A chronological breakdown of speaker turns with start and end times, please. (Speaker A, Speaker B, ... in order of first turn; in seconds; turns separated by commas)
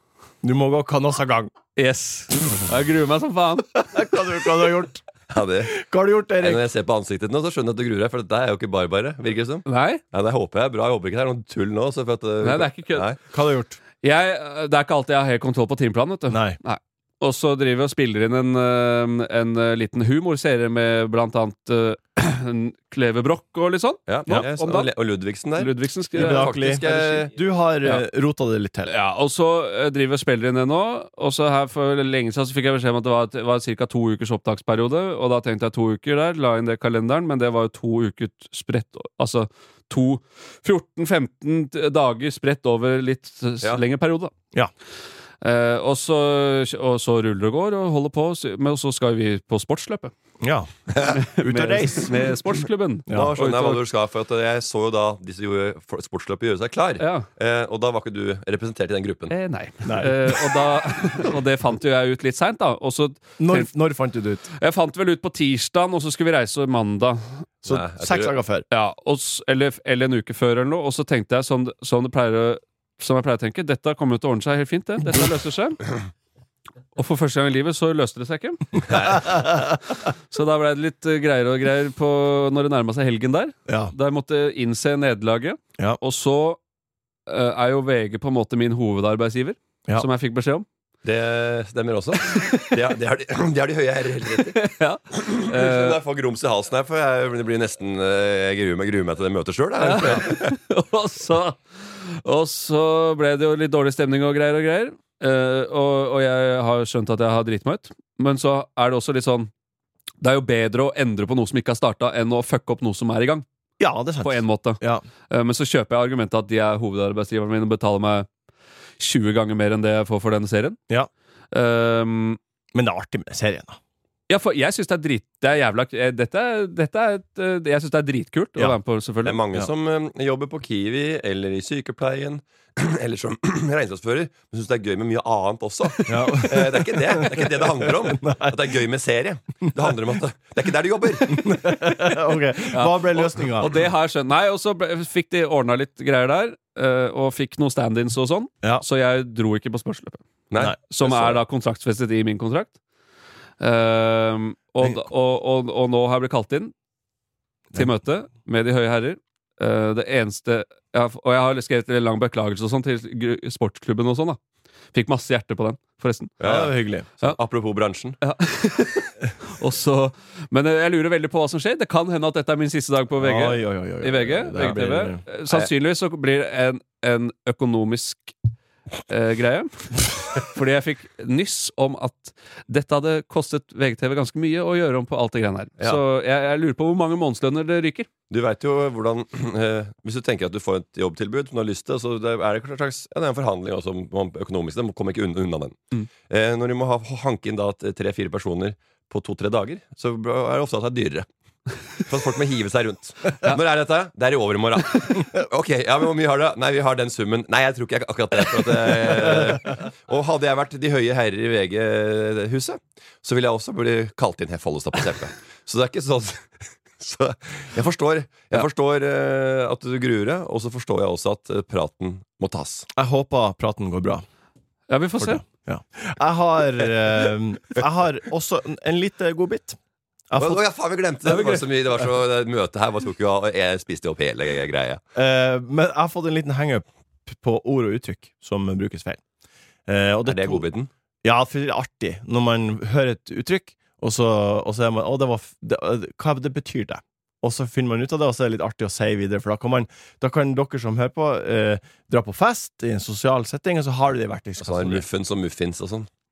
Speaker A: 0.4-1.5, Speaker B: 1.8-3.7, Speaker A: 3.9-5.0, Speaker C: 5.3-5.8, Speaker A: 5.7-6.6, Speaker C: 6.4-13.2, Speaker B: 9.7-10.0, Speaker B: 12.4-13.1, Speaker A: 13.3-13.8, Speaker B: 14.0-24.9, Speaker A: 16.3-16.6, Speaker C: 24.1-27.3, Speaker B: 25.6-27.2, Speaker A: 26.1-28.9, Speaker B: 28.8-44.3, Speaker B: 45.4-50.1, Speaker A: 50.4-52.1, Speaker C: 50.9-51.2, Speaker B: 51.1-53.8, Speaker A: 53.1-53.3, Speaker C: 53.1-59.3, Speaker B: 57.0-57.2, Speaker B: 59.3-63.7, Speaker A: 59.8-60.1, Speaker A: 63.4-64.5, Speaker B: 64.5-67.4, Speaker A: 67.6-68.6, Speaker C: 67.7-68.3, Speaker B: 68.7-75.8, Speaker B: 76.9-79.5, Speaker C: 78.9-79.3, Speaker B: 80.0-86.6, Speaker A: 83.7-83.9, Speaker B: 87.3-90.7, Speaker C: 91.0-94.6, Speaker B: 94.4-96.0, Speaker C: 95.1-100.5, Speaker B: 99.8-109.5, Speaker B: 110.2-113.5, Speaker A: 113.8-115.0, Speaker B: 114.2-118.3, Speaker B: 119.0-120.8, Speaker B: 121.5-122.4, Speaker A: 122.7-123.8, Speaker B: 124.3-129.4, Speaker C: 129.2-141.6, Speaker A: 136.1-138.7, Speaker A: 141.3-143.7, Speaker B: 142.7-150.2, Speaker C: 150.5-151.4, Speaker B: 150.9-152.7, Speaker B: 153.6-156.7, Speaker B: 157.7-164.4, Speaker B: 164.9-166.3, Speaker C: 166.4-168.2, Speaker A: 166.4-167.1, Speaker B: 168.2-178.3, Speaker A: 173.2-175.2, Speaker B: 179.1-188.1, Speaker C: 188.3-201.3, Speaker C: 202.0-222.9, Speaker A: 222.9-224.2, Speaker B: 224.9-225.4, Speaker A: 225.2-229.8, Speaker A: 230.3-230.6, Speaker C: 230.3-235.0, Speaker B: 231.3-231.6, Speaker A: 235.1-239.2, Speaker A: 239.9-240.7, Speaker C: 240.2-240.9, Speaker A: 241.2-255.1, Speaker C: 254.6-256.1